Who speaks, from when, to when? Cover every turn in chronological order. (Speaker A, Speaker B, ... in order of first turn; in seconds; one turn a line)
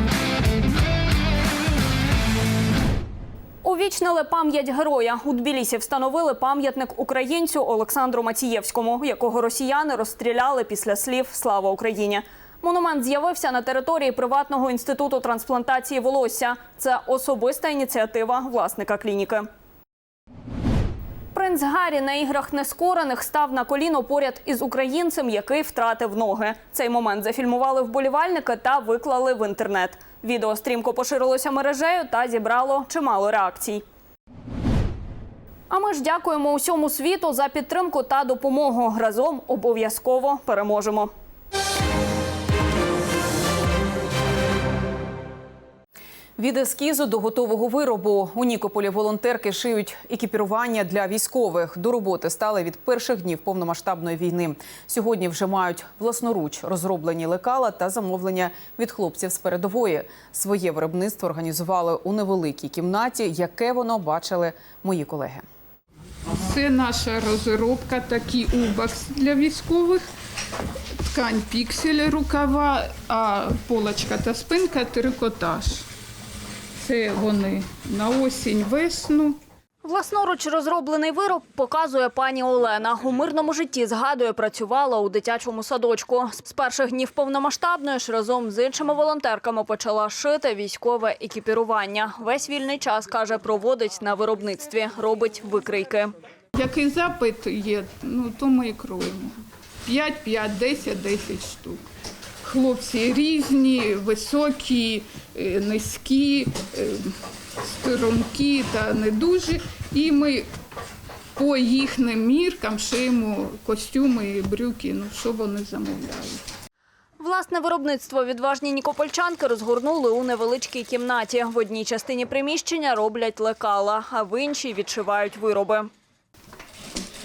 Speaker A: 3.6-19.5
Speaker A: 21.3-33.8
Speaker A: 35.7-41.1
Speaker B: 46.4-65.4
Speaker C: 66.4-70.1
Speaker C: 71.1-75.8
Speaker C: 76.8-79.4
Speaker A: 79.8-96.1
Speaker C: 96.5-101.8
Speaker C: 102.4-107.1
Speaker C: 107.7-110.5
Speaker C: 111.4-116.4
Speaker A: 117.2-125.9